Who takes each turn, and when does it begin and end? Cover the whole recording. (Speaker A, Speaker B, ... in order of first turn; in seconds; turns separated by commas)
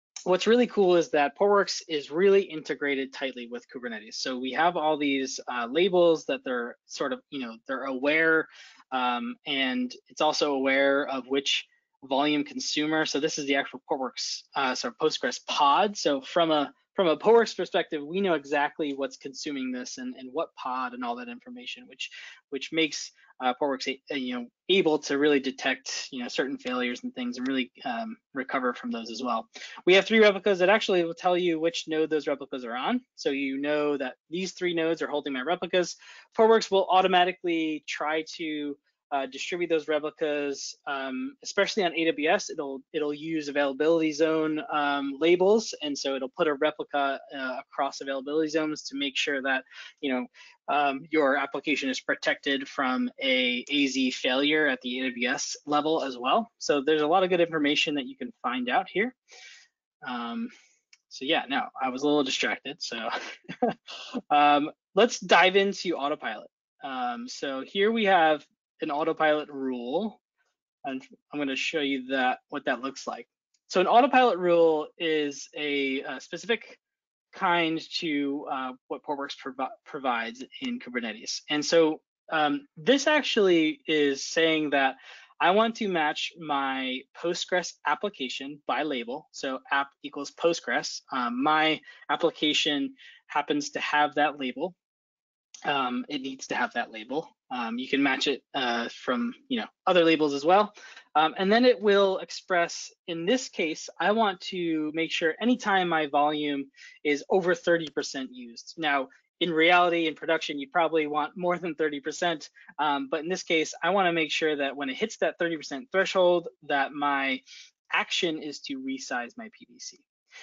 Speaker A: 0.2-59.1, Speaker A: 60.0-60.5, Speaker A: 61.1-70.2, Speaker A: 70.8-76.8, Speaker A: 77.3-94.8, Speaker A: 95.7-117.4, Speaker A: 117.9-120.0